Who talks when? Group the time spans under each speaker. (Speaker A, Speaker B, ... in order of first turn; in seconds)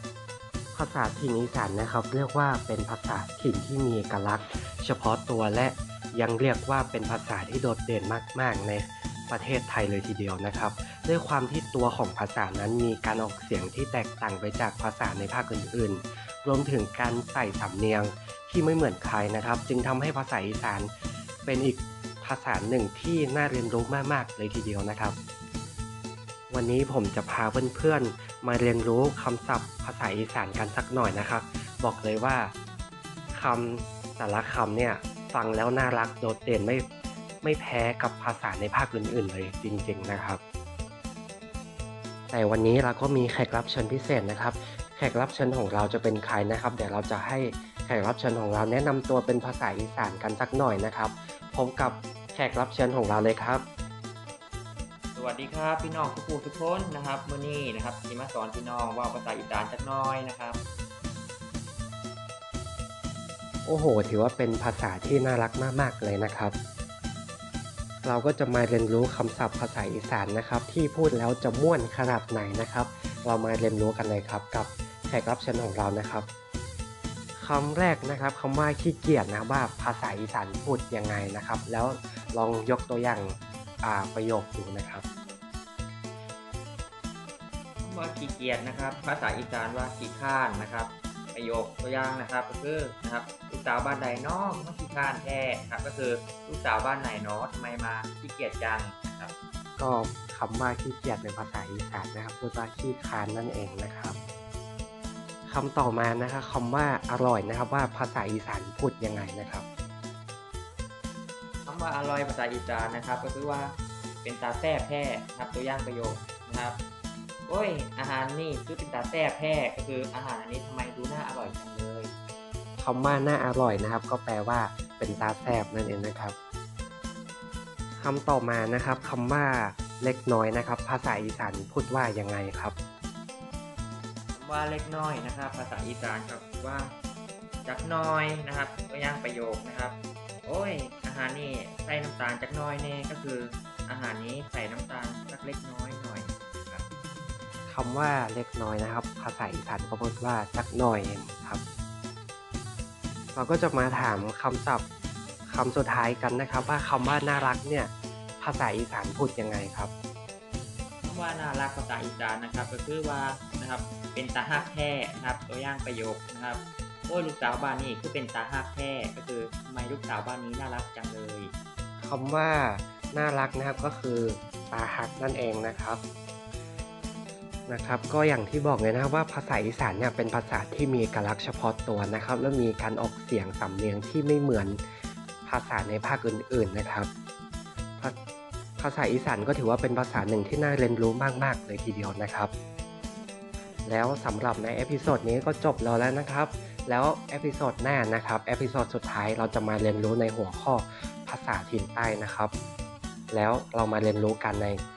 Speaker A: 0.7-20.9, 21.4-25.1, 26.5-32.5, 33.3-36.9, 37.4-40.4, 42.3-53.6, 63.6-66.5, 68.0-76.3, 77.4-85.0, 99.8-104.2, 105.5-109.6, 122.8-126.3, 128.0-132.7, 147.7-151.6, 153.3-154.8, 155.4-159.9, 172.0-176.0, 177.7-184.8, 185.4-187.1, 188.8-192.5, 193.8-202.5, 203.3-204.8
Speaker B: 55.1-60.6, 87.8-99.3, 111.7-116.8, 117.5-122.1, 134.3-136.9, 137.6-146.8, 161.0-171.5